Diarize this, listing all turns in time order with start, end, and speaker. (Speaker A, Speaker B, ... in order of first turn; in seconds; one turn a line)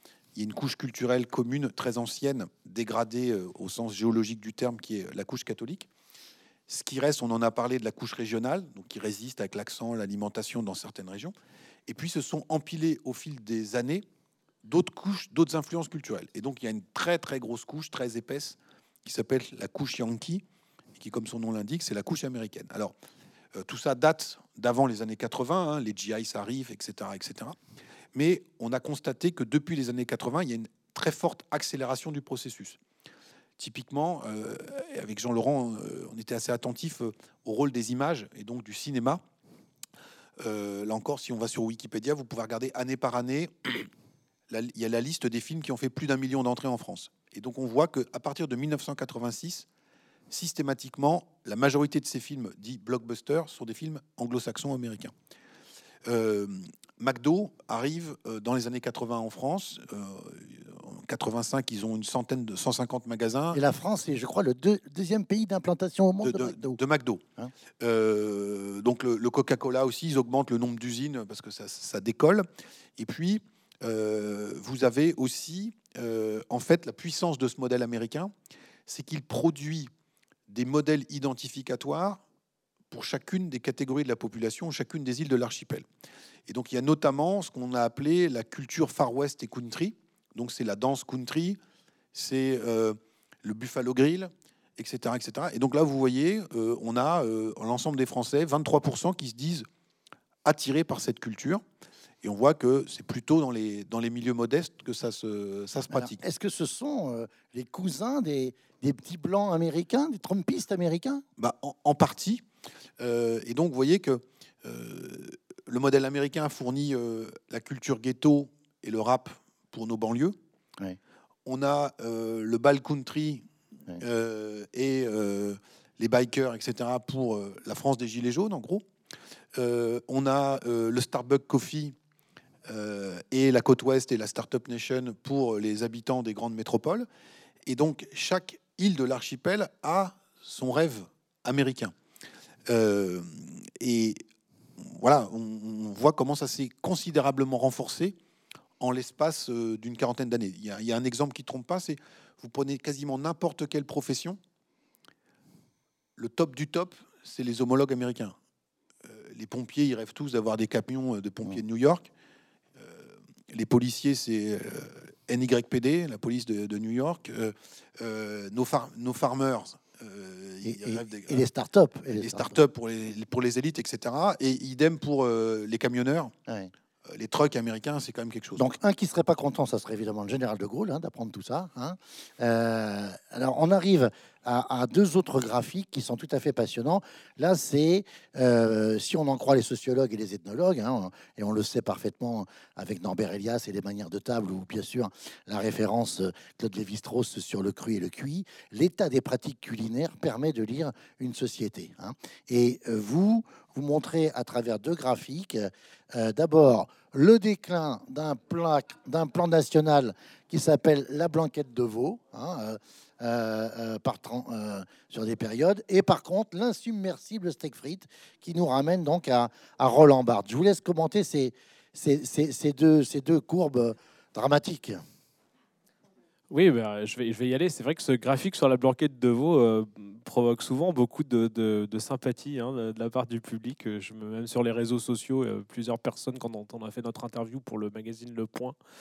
Speaker A: 0.3-5.9
Speaker A: 6.7-11.3
Speaker A: 11.9-14.0
Speaker A: 14.6-20.4
Speaker A: 21.0-22.9
Speaker A: 23.5-27.6
Speaker A: 28.1-32.8
Speaker A: 33.6-39.2
Speaker A: 40.4-43.9
Speaker A: 44.5-49.7
Speaker A: 50.3-55.1
Speaker A: 56.0-63.6
Speaker B: 63.5-66.8
Speaker A: 66.2-67.2
Speaker A: 67.8-72.5
Speaker A: 73.0-78.3
Speaker A: 78.8-79.9
Speaker A: 80.5-82.2
Speaker A: 82.9-85.8
Speaker A: 86.5-91.6
Speaker A: 92.1-99.7
Speaker A: 100.4-101.6
Speaker A: 102.2-106.2
Speaker B: 105.9-111.2
Speaker A: 111.4-112.4
Speaker A: 113.0-120.3
Speaker A: 121.4-123.4
Speaker A: 124.0-128.8
Speaker A: 129.5-131.9
Speaker A: 132.7-137.1
Speaker A: 137.7-141.9
Speaker A: 142.7-144.2
Speaker A: 144.8-148.2
Speaker A: 148.8-154.4
Speaker A: 156.2-158.3
Speaker A: 159.0-162.1
Speaker A: 162.8-171.4
Speaker B: 170.6-172.6
Speaker A: 172.1-176.3
Speaker B: 176.5-176.7
Speaker A: 177.1-178.7
Speaker B: 178.6-225.0
Speaker C: 226.5-238.8